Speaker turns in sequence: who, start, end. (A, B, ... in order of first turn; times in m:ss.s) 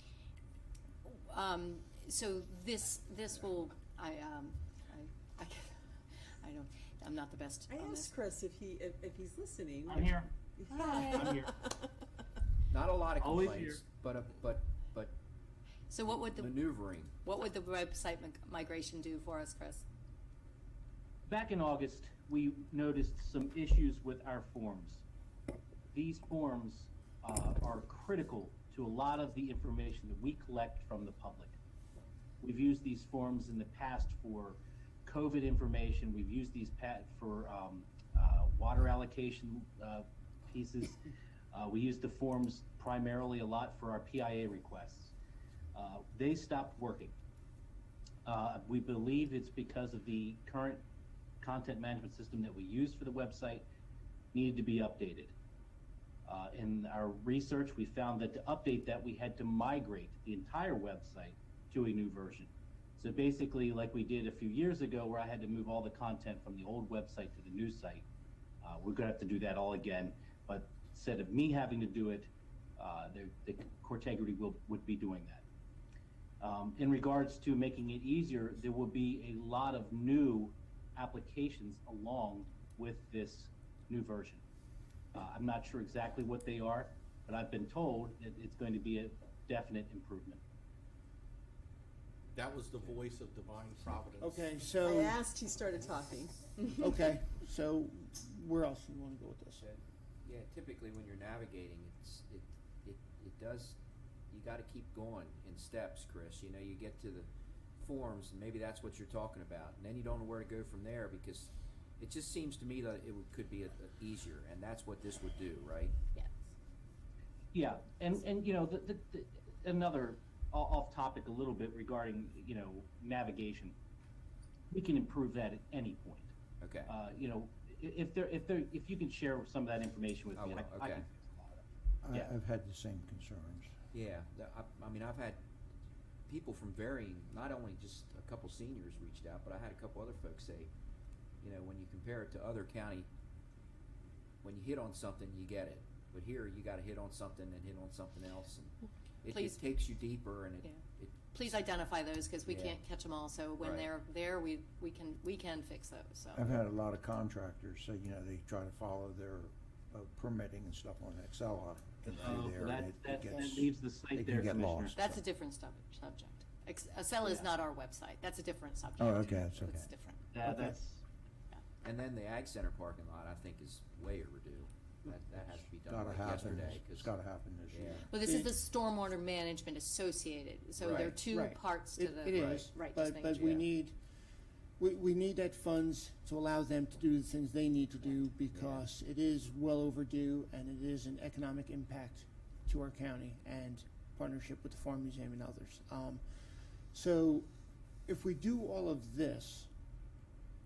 0:01.1-0:05.8 A
0:06.4-0:08.1 A
0:07.7-0:10.1 B
0:09.9-0:10.3 C
0:10.7-0:11.9 B
0:10.7-0:11.4 A
0:11.2-0:11.6 C
0:12.7-0:15.2 D
0:13.2-0:13.8 C
0:15.9-0:19.8 A
0:16.1-0:17.2 D
0:21.3-0:25.0 C
0:25.9-0:31.6 C
0:32.4-0:41.0 C
0:41.5-0:45.2 C
0:45.7-0:47.2 C
0:48.2-0:50.8 C
0:51.4-0:53.7 C
0:54.3-0:55.3 C
0:56.3-1:08.1 C
1:08.6-1:15.4 C
1:16.4-1:24.4 C
1:25.1-1:30.4 C
1:32.3-1:34.7 E
1:34.2-1:35.2 F
1:34.8-1:36.6 B
1:36.8-1:39.6 F
1:39.6-1:43.8 D
1:44.3-1:56.0 D
1:56.2-1:56.4 A
1:57.5-2:03.8 C
2:04.7-2:06.3 C
2:06.6-2:06.9 D
2:06.9-2:12.3 C
2:10.4-2:11.1 D
2:12.0-2:13.7 G
2:13.9-2:15.4 D
2:16.3-2:20.7 D
2:21.4-2:23.1 D
2:24.4-2:31.2 D
2:29.3-2:29.6 A
2:31.3-2:36.5 A
2:32.5-2:32.8 D
2:33.6-2:33.9 D
2:36.4-2:45.2 G
2:42.2-2:45.0 C
2:45.0-2:50.4 A
2:49.0-2:49.8 G
2:49.6-2:49.9 D
2:50.3-2:51.0 C
2:51.8-2:57.1 D
2:55.5-2:58.1 G
2:57.7-2:58.1 D
2:58.1-3:03.6 A
2:58.2-2:58.6 F
3:00.8-3:01.2 D
3:01.3-3:04.0 F
3:02.3-3:02.7 D
3:03.4-3:03.6 D
3:04.8-3:16.2 F
3:08.5-3:08.9 D
3:16.9-3:17.5 F
3:18.1-3:19.7 F